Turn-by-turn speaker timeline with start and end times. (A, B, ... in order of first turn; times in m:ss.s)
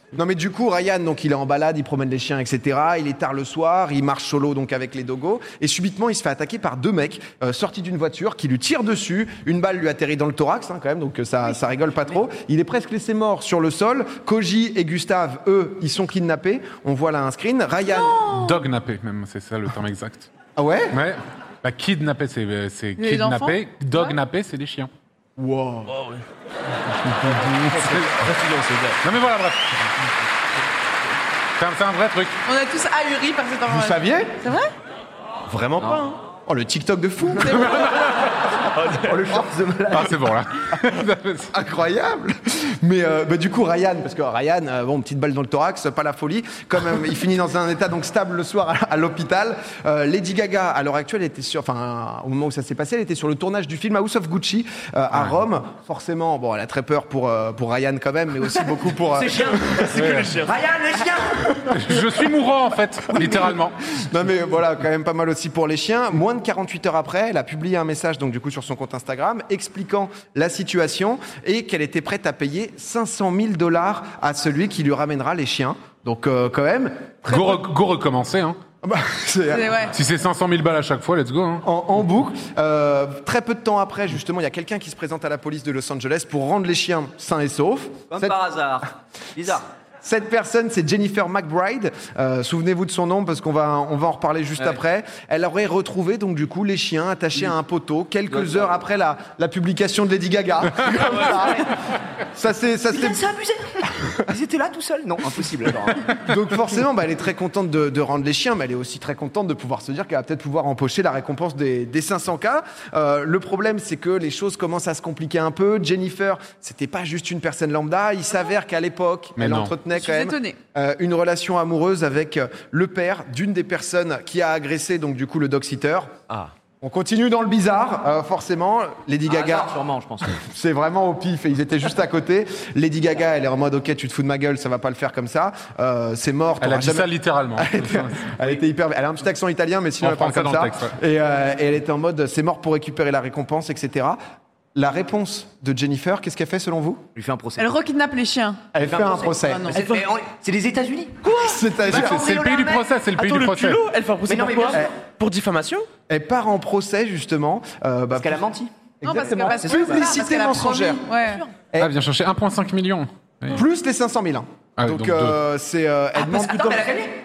0:00.2-0:18.4 A
0:18.3-0:20.3 B
0:20.6-0:21.0 A
0:20.9-0:24.9 B
0:23.0-0:24.2 C
0:25.4-0:25.9 A
0:25.9-0:26.2 D
0:27.1-0:28.3 B
0:27.5-0:29.0 D
0:29.0-0:29.8 B
0:31.6-0:32.4 B
0:32.5-0:34.7 C
0:33.7-0:34.4 A
0:35.5-0:36.2 D
0:35.8-0:36.1 E
0:36.5-0:38.1 A
0:37.4-0:37.9 C
0:38.5-0:39.2 D
0:38.9-0:40.2 E
0:39.9-0:41.5 B
0:41.5-1:00.0 A
0:55.1-0:55.4 B
0:59.1-1:01.6 E
0:59.4-1:00.6 D
0:59.9-1:00.4 B
1:01.3-1:02.0 A
1:01.7-1:03.8 B
1:03.1-1:17.4 A
1:17.2-1:18.6 B
1:18.8-1:19.9 A
1:19.5-1:19.9 C
1:19.9-1:21.6 B
1:21.6-1:28.4 A
1:28.1-1:29.6 E
1:30.0-1:41.7 A
1:38.3-1:38.8 E
1:40.9-1:41.7 E
1:42.3-1:43.3 A
1:42.9-1:46.2 E
1:46.1-2:06.1 A
1:59.4-1:59.8 B
1:59.9-2:00.6 C
2:06.8-2:09.7 A
2:09.2-2:10.4 E
2:10.2-2:24.2 A
2:16.6-2:18.5 B
2:20.0-2:20.9 B
2:24.8-2:27.0 A
2:27.2-2:27.8 E
2:27.6-2:28.7 C
2:28.7-2:29.8 A
2:28.8-2:31.2 E
2:29.4-2:29.8 C
2:29.8-2:30.1 D
2:31.2-2:32.2 D
2:31.4-2:32.3 A
2:31.9-2:32.9 E
2:32.1-2:33.8 B
2:33.2-2:35.9 D
2:34.2-2:34.9 E
2:36.1-2:38.5 A
2:38.1-2:38.7 E
2:39.0-2:41.1 A
2:39.0-2:41.4 C
2:39.5-2:40.1 E
2:41.0-2:41.5 E
2:41.8-2:43.6 B
2:43.5-2:47.0 A
2:44.8-2:45.4 B
2:46.1-2:47.1 E